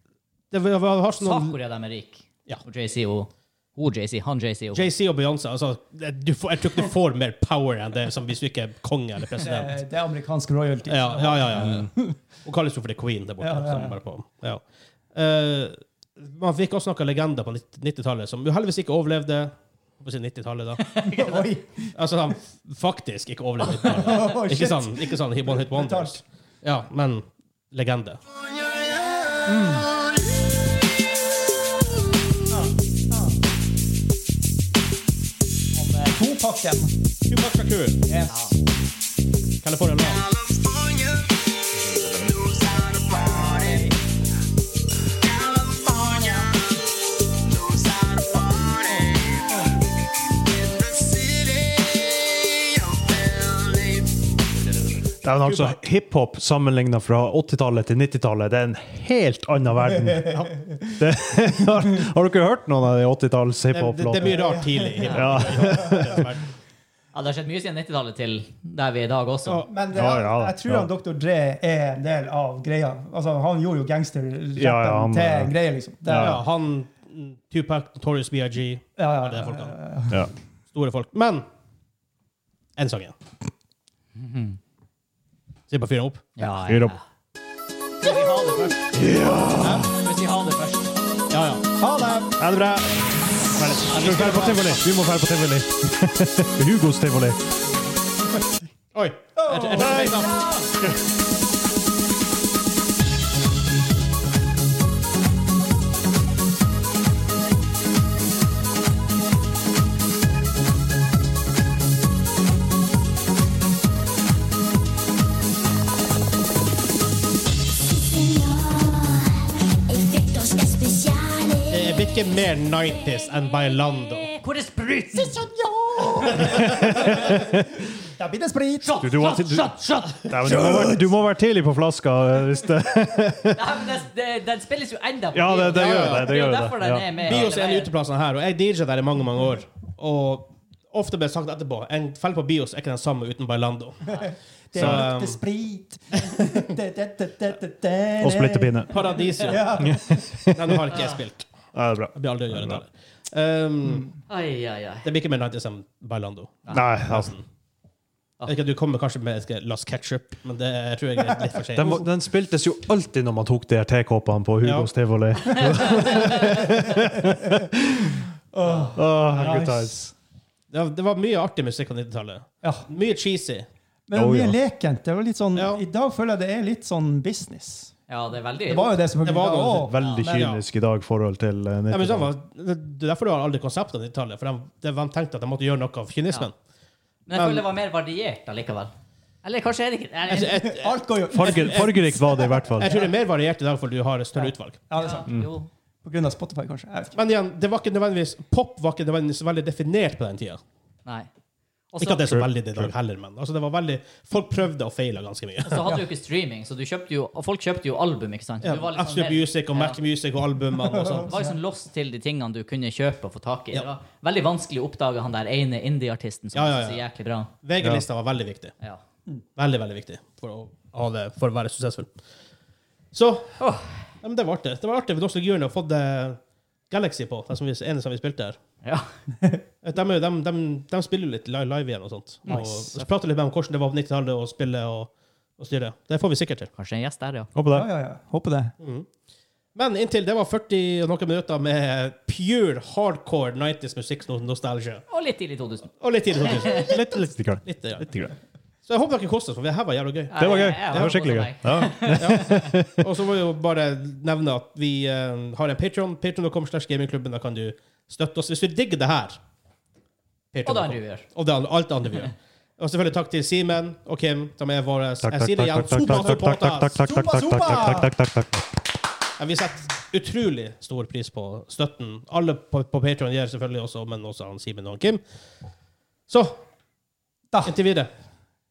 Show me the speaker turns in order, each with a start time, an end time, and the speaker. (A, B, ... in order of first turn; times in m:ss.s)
0:00.5-0:01.6 A
0:01.2-0:04.9 B
0:04.7-0:09.8 A
0:09.4-0:12.2 C
0:10.9-0:11.9 A
0:12.4-0:14.6 A
0:13.4-0:14.0 C
0:15.1-0:20.8 A
0:20.8-0:21.4 B
0:21.0-0:21.9 C
0:21.9-0:28.2 A
0:23.8-0:26.2 C
0:29.4-0:29.9 C
0:32.5-0:33.4 C
0:35.8-0:36.9 C
0:37.3-0:38.0 A
0:38.1-0:38.4 C
0:38.3-0:38.5 B
0:39.6-0:40.2 A
0:43.4-0:43.9 C
0:55.2-1:04.5 D
0:55.4-0:55.8 A
0:59.9-1:00.8 C
1:03.7-1:06.4 A
1:04.2-1:06.2 C
1:05.0-1:06.2 D
1:07.1-1:09.6 B
1:09.6-1:16.4 C
1:09.9-1:10.9 D
1:14.6-1:15.5 D
1:16.0-1:16.4 D
1:16.1-1:19.7 A
1:19.0-1:20.3 C
1:20.7-1:21.4 A
1:22.8-1:23.1 A
1:24.1-1:24.6 B
1:25.7-1:26.3 A
1:26.4-1:27.0 B
1:26.6-1:26.9 D
1:28.0-1:28.7 B
1:28.9-1:29.9 D
1:29.8-1:30.9 B
1:31.3-1:31.6 A
1:31.8-1:32.4 C
1:32.4-1:33.0 D
1:33.5-1:37.4 D
1:33.9-1:34.8 A
1:38.9-1:40.4 A
1:39.4-1:40.3 C
1:57.8-2:02.1 E
2:01.7-2:04.3 A
2:04.3-2:05.3 B
2:05.1-2:09.0 C
2:06.4-2:07.6 D
2:08.8-2:10.3 B
2:09.0-2:13.6 D
2:10.3-2:11.1 C
2:13.5-2:17.9 B
2:15.3-2:17.3 D
2:15.7-2:16.4 A
2:17.2-2:24.2 A
2:24.1-2:30.2 C
2:24.7-2:25.4 A
2:24.8-2:25.0 D
2:28.2-2:28.9 D
2:28.9-2:34.1 A
2:29.8-2:30.8 D
2:30.9-2:31.2 B
2:31.7-2:32.8 D
2:34.3-2:35.1 B
2:35.0-2:37.4 A
2:36.7-2:37.3 D
2:38.5-2:42.0 A
2:41.8-2:48.2 D
2:41.8-2:42.0 C
2:44.6-2:44.9 A
2:46.4-2:47.7 C
2:48.5-2:50.1 C
2:48.6-2:48.9 B
2:48.9-2:50.1 D
2:50.7-2:53.7 A
2:54.1-2:57.9 C
2:54.1-2:54.6 D
2:55.5-2:55.8 A
2:58.1-2:58.9 B
2:58.6-3:00.0 C
2:59.2-3:00.6 A
2:59.8-3:02.3 D
3:00.0-3:00.2 B
3:01.9-3:06.5 A
3:07.3-3:08.9 B
3:07.3-3:07.6 A
3:09.4-3:10.7 B
3:10.3-3:12.2 A
3:10.5-3:13.1 C
3:11.3-3:12.9 D
3:12.8-3:14.8 A
3:14.4-3:15.3 C
3:15.0-3:15.7 B
3:16.0-3:17.2 C
3:17.1-3:20.6 A
3:21.9-3:22.3 B
3:22.0-3:25.9 A
3:22.2-3:22.9 D
3:25.6-3:30.0 B
3:25.8-3:26.0 C
3:28.6-3:31.3 A
3:31.0-3:31.6 C
3:31.2-3:37.5 B
3:36.5-3:37.0 A
3:37.6-3:38.7 A
3:39.6-3:42.1 A
3:43.1-3:43.6 A
3:43.6-3:44.0 B
3:44.2-3:46.4 A
3:46.9-3:48.6 A
3:49.8-3:56.7 A
3:52.5-3:53.1 B
3:56.8-3:57.5 B
3:57.5-3:57.9 D
3:57.7-3:58.7 C
3:58.8-3:59.1 A
3:59.7-4:05.0 A
4:05.1-4:06.8 B
4:06.0-4:07.1 A
4:06.8-4:08.3 D
4:07.6-4:08.1 A
4:08.9-4:11.4 A
4:10.3-4:12.6 B
4:10.4-4:13.0 D
4:12.1-4:19.4 A
4:20.5-4:27.0 A
4:20.6-4:21.2 B
4:25.2-4:28.6 D
4:26.0-4:26.4 C
4:27.0-4:28.1 C
4:29.4-4:35.2 A
4:36.3-4:36.6 A
4:37.5-4:37.8 C
4:37.6-4:38.1 A